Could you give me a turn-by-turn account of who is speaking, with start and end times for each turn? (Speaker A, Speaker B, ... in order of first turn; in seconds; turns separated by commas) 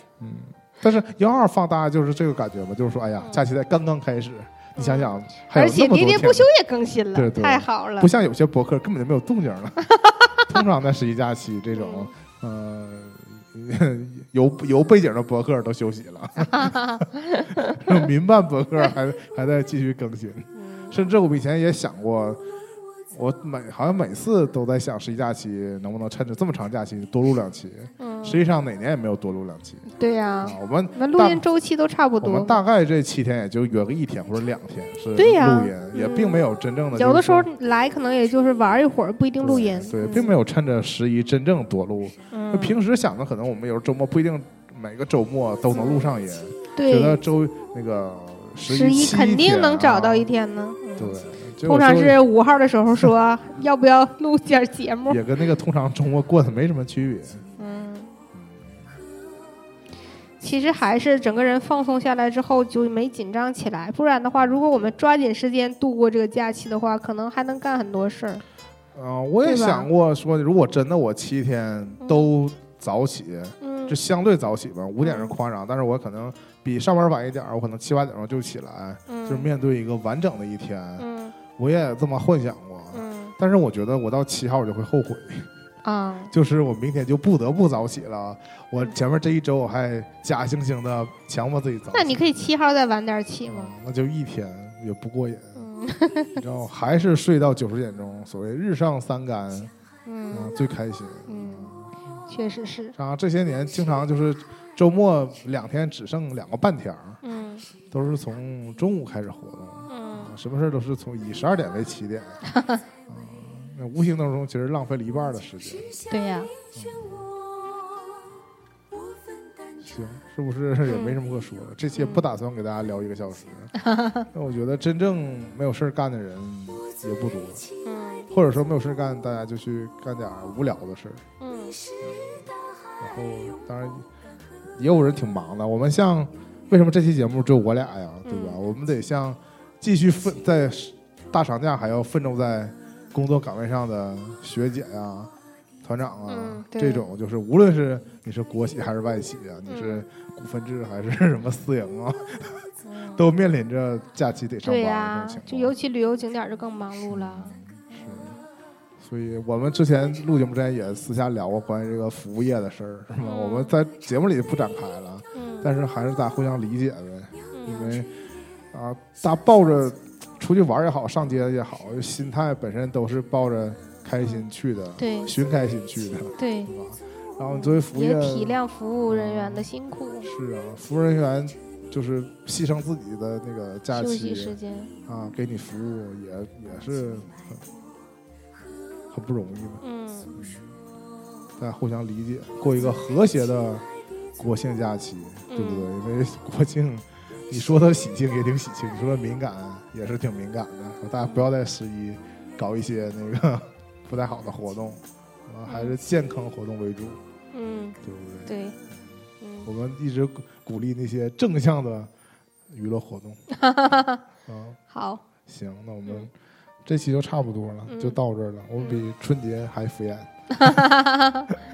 Speaker A: 0.2-6.5, Speaker B: 4.8-8.1, Speaker A: 7.1-9.8, Speaker B: 9.8-10.4, Speaker A: 10.5-22.4, Speaker B: 11.7-12.1, Speaker B: 16.5-17.6, Speaker B: 20.5-21.0, Speaker A: 23.1-29.9, Speaker B: 28.0-28.4, Speaker B: 29.9-32.6, Speaker A: 30.4-31.4, Speaker A: 32.2-37.5, Speaker B: 35.2-40.3, Speaker A: 39.4-50.3, Speaker B: 42.3-42.8, Speaker B: 45.7-46.1, Speaker B: 46.8-47.2, Speaker B: 48.7-55.2, Speaker A: 51.0-52.2, Speaker A: 55.1-57.4, Speaker B: 57.6-58.1, Speaker A: 58.3-58.9, Speaker B: 60.4-68.4, Speaker A: 68.9-85.5, Speaker B: 69.4-69.9, Speaker B: 73.6-74.0, Speaker B: 75.0-75.3, Speaker B: 79.1-79.5, Speaker B: 81.0-81.3, Speaker B: 82.9-83.3, Speaker B: 85.8-86.3, Speaker A: 86.3-92.3, Speaker B: 91.9-93.7, Speaker A: 93.5-95.6, Speaker B: 95.5-96.4, Speaker A: 96.3-99.7, Speaker B: 100.0-100.5, Speaker A: 100.3-101.9, Speaker B: 101.3-101.7, Speaker B: 102.3-102.9, Speaker A: 102.9-107.2, Speaker B: 107.2-107.7, Speaker A: 107.9-112.4, Speaker B: 109.9-110.3, Speaker B: 112.5-112.8, Speaker A: 113.1-115.9, Speaker B: 116.1-116.5, Speaker A: 116.7-117.2, Speaker A: 119.8-123.7, Speaker B: 120.9-121.2, Speaker B: 121.9-122.2, Speaker B: 123.7-124.2, Speaker A: 124.3-127.7, Speaker B: 127.8-128.3, Speaker A: 128.3-131.2, Speaker B: 131.4-131.8, Speaker A: 133.0-134.1, Speaker A: 134.8-145.3, Speaker B: 138.2-138.6, Speaker A: 145.8-152.6, Speaker B: 146.3-147.1, Speaker B: 149.7-150.0, Speaker B: 152.8-153.2, Speaker A: 153.1-155.7, Speaker B: 154.6-158.4, Speaker A: 157.1-158.3, Speaker A: 159.0-168.1, Speaker B: 163.2-163.8, Speaker B: 165.3-165.7, Speaker B: 167.5-167.9, Speaker A: 168.7-179.7, Speaker B: 175.0-175.3, Speaker B: 176.4-176.7, Speaker B: 177.5-180.3, Speaker A: 180.2-184.6, Speaker B: 183.9-184.9, Speaker A: 185.1-187.7, Speaker A: 189.1-189.8, Speaker B: 189.8-190.3, Speaker A: 190.3-190.8, Speaker A: 191.6-193.8, Speaker A: 194.4-207.2, Speaker B: 195.5-195.9, Speaker B: 205.7-205.9, Speaker B: 207.5-208.8, Speaker A: 208.0-209.0, Speaker B: 209.4-209.7, Speaker A: 209.6-212.1, Speaker A: 212.7-213.4, Speaker B: 213.6-214.2, Speaker A: 214.4-214.8, Speaker B: 214.9-215.2, Speaker A: 215.4-216.3, Speaker A: 216.8-220.8, Speaker B: 217.9-218.2, Speaker B: 218.8-219.0, Speaker B: 220.7-221.4